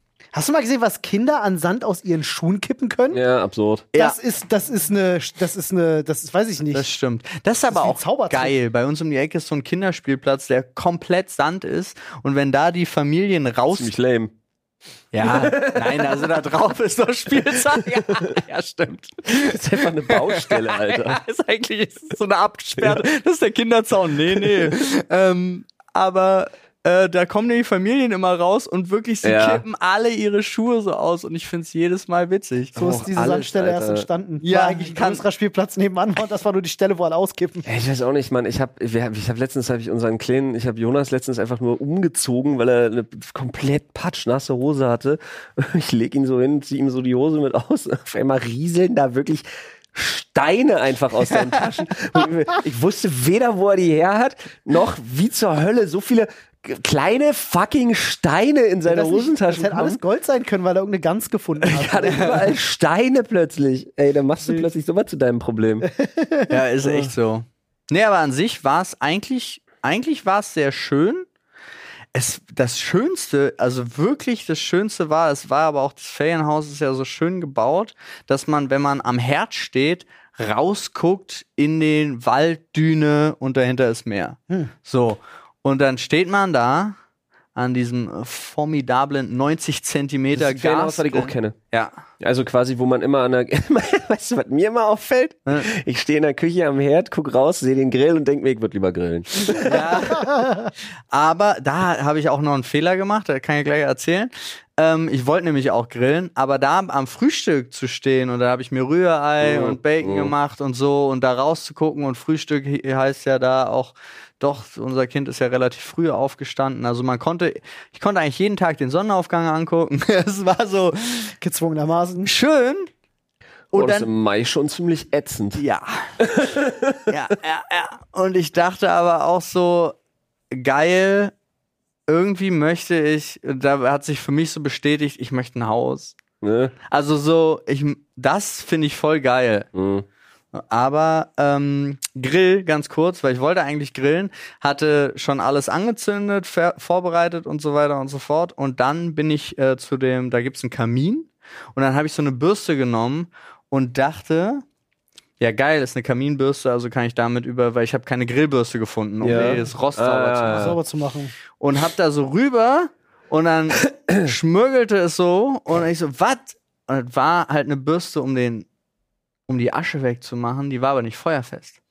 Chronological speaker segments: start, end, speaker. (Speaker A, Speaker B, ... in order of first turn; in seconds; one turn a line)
Speaker A: 0.3-3.2
Speaker B: 3.1-3.9
Speaker A: 3.9-6.9
Speaker C: 6.7-13.9
Speaker A: 7.7-8.5
Speaker B: 13.7-14.3
Speaker C: 15.1-32.8
Speaker B: 15.2-16.3
Speaker B: 19.3-21.2
Speaker B: 29.2-29.6
Speaker A: 32.7-37.6
Speaker B: 32.8-34.1
Speaker C: 34.4-35.2
Speaker B: 37.6-60.0
Speaker A: 58.9-62.4
Speaker C: 61.6-62.5
Speaker B: 61.7-65.9
Speaker A: 64.4-64.7
Speaker A: 65.8-66.6
Speaker C: 66.5-71.3
Speaker C: 72.1-87.0
Speaker C: 87.5-92.0
Speaker B: 90.3-91.5
Speaker B: 92.2-99.9
Speaker C: 99.5-100.4
Speaker A: 100.2-100.7
Speaker C: 101.1-121.3
Speaker B: 109.4-110.3
Speaker A: 121.4-122.3
Speaker C: 122.2-122.9
Speaker C: 123.7-124.1
Speaker B: 123.7-125.6
Speaker C: 125.5-126.2
Speaker B: 126.2-127.1
Speaker C: 127.1-129.9
Speaker C: 130.5-131.3
Speaker C: 132.1-136.2
Speaker B: 136.4-136.7
Speaker C: 136.9-139.7
Speaker B: 139.7-140.1
Speaker C: 140.5-154.6
Speaker C: 155.4-160.7
Speaker B: 159.2-160.8
Speaker A: 159.3-159.6
Speaker A: 160.5-161.3
Speaker C: 161.6-168.7
Speaker C: 169.5-171.8